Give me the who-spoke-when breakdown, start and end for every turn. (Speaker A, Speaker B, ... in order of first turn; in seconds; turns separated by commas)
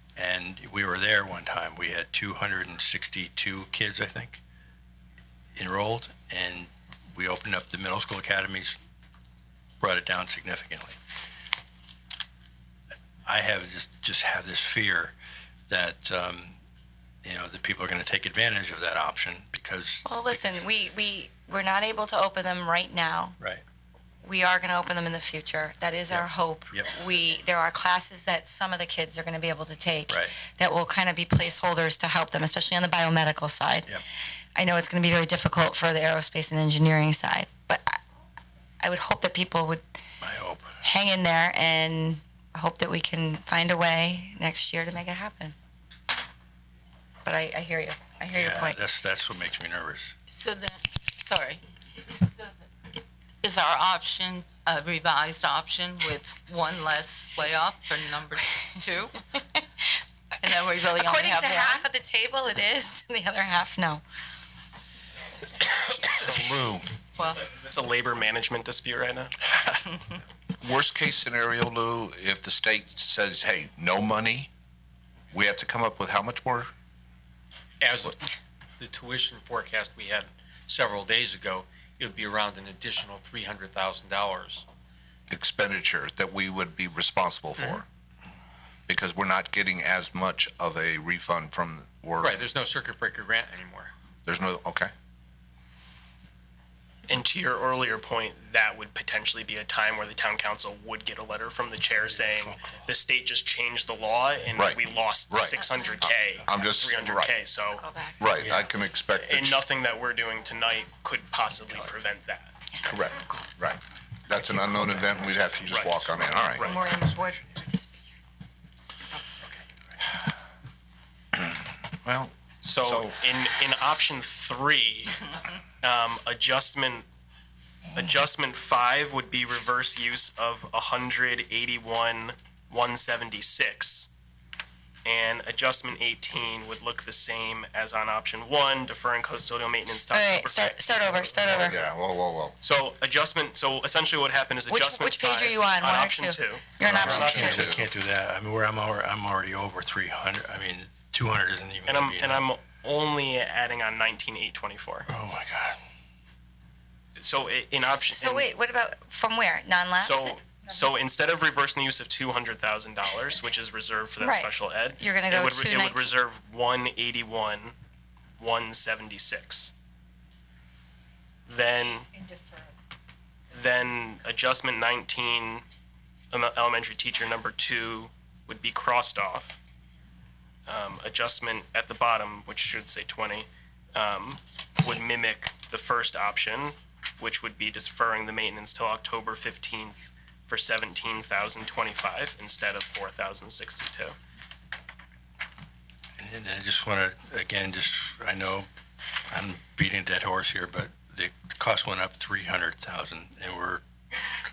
Speaker A: 0.2-4.4, Speaker A: 5.6-8.8, Speaker A: 9.8-11.0, Speaker A: 13.3-15.2, Speaker A: 15.7-16.6, Speaker A: 17.2-20.6, Speaker B: 20.1-23.4, Speaker B: 24.2-33.9, Speaker A: 26.1-27.0, Speaker A: 30.1-30.4, Speaker B: 34.6-38.0, Speaker B: 38.8-39.8, Speaker A: 40.2-40.8, Speaker B: 40.8-45.5, Speaker B: 47.2-48.8, Speaker A: 48.3-50.2, Speaker C: 50.3-52.6, Speaker C: 53.4-59.2, Speaker B: 59.4-59.6, Speaker C: 60.4-61.9, Speaker B: 60.5-64.0, Speaker D: 65.7-66.3, Speaker E: 66.1-66.9, Speaker C: 67.2-67.4, Speaker D: 67.4-69.5, Speaker E: 70.6-74.5, Speaker E: 75.3-76.7, Speaker F: 77.8-84.7, Speaker E: 85.3-87.9, Speaker E: 88.9-92.4, Speaker F: 92.2-93.9, Speaker E: 94.3-94.9, Speaker D: 97.1-107.8, Speaker A: 102.0-102.9, Speaker E: 104.6-107.4, Speaker B: 105.7-106.0, Speaker B: 107.7-108.3, Speaker E: 108.2-109.6, Speaker A: 108.4-108.7, Speaker D: 109.2-112.5, Speaker E: 112.9-116.8, Speaker A: 114.7-117.4, Speaker D: 115.7-116.8, Speaker B: 116.6-118.0, Speaker E: 121.3-123.2, Speaker D: 122.6-127.1, Speaker D: 128.0-134.1, Speaker D: 135.1-141.7, Speaker B: 140.1-141.8, Speaker E: 141.4-142.6, Speaker D: 142.6-147.6, Speaker B: 144.7-147.6, Speaker A: 146.8-152.4, Speaker E: 146.8-147.9, Speaker D: 151.9-155.1, Speaker A: 155.1-155.8, Speaker D: 157.2-158.5, Speaker B: 158.1-160.4, Speaker D: 160.0-167.8, Speaker B: 164.2-166.2, Speaker D: 168.4-169.7, Speaker D: 171.5-172.1, Speaker D: 173.5-175.6, Speaker D: 176.3-179.6, Speaker D: 180.7-194.2, Speaker A: 196.2-198.7, Speaker A: 199.3-203.8